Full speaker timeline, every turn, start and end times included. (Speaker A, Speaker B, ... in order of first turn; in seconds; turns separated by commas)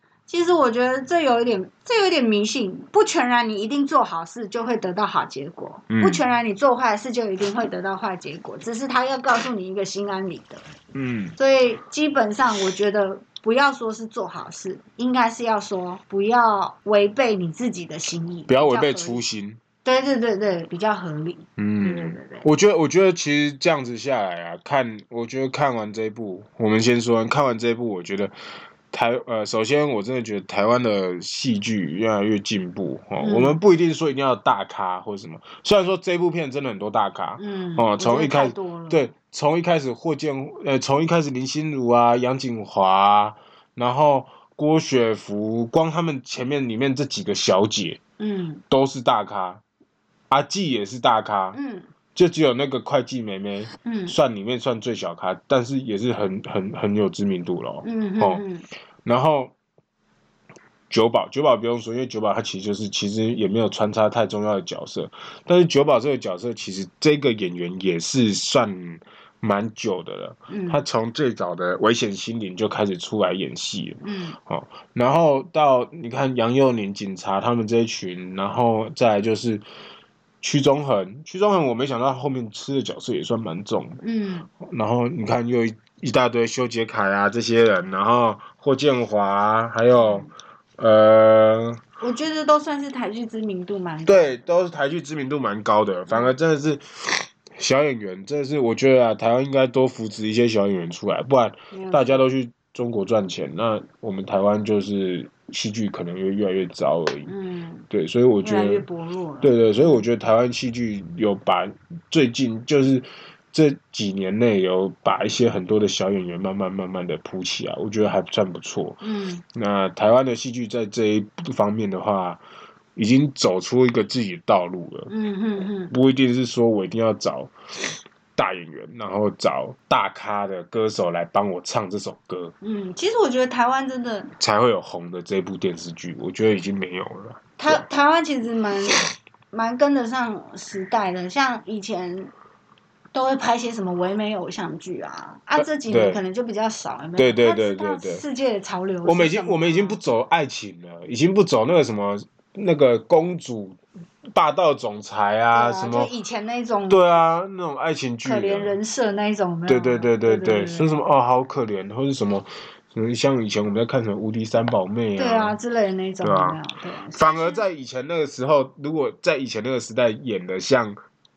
Speaker A: 0.3-10.6, Speaker B: 5.9-6.2, Speaker B: 10.9-11.4, Speaker A: 11.4-19.2, Speaker B: 18.5-19.6, Speaker A: 19.9-22.5, Speaker B: 21.6-28.3, Speaker B: 28.9-48.0, Speaker A: 33.2-33.6, Speaker A: 37.4-39.1, Speaker A: 48.2-48.6, Speaker B: 48.7-49.6, Speaker B: 50.3-51.6, Speaker A: 51.5-51.9, Speaker B: 52.1-58.4, Speaker A: 53.8-54.2, Speaker A: 57.8-58.7, Speaker B: 59.0-59.5, Speaker B: 60.9-79.6, Speaker A: 70.5-70.8, Speaker A: 74.0-74.4, Speaker B: 80.4-84.0, Speaker A: 84.0-84.5, Speaker B: 84.6-91.8, Speaker A: 90.0-90.3, Speaker A: 92.0-94.4, Speaker B: 94.1-107.3, Speaker A: 96.1-96.3, Speaker A: 101.7-102.2, Speaker A: 107.3-107.9, Speaker B: 107.9-108.8, Speaker A: 108.4-110.0, Speaker B: 109.4-119.0, Speaker A: 119.0-119.4, Speaker B: 119.5-122.4, Speaker B: 123.0-125.1, Speaker A: 125.1-125.9, Speaker B: 125.9-127.5, Speaker B: 128.4-132.5, Speaker A: 132.6-134.3, Speaker B: 134.4-137.8, Speaker A: 137.6-142.3, Speaker A: 143.1-150.0, Speaker B: 145.6-146.2, Speaker B: 147.2-148.2, Speaker B: 149.1-153.8, Speaker B: 154.3-156.1, Speaker A: 155.5-157.0, Speaker B: 156.9-158.8, Speaker A: 158.2-161.0, Speaker B: 159.7-165.6, Speaker A: 165.2-167.6, Speaker B: 166.2-166.6, Speaker B: 167.2-171.0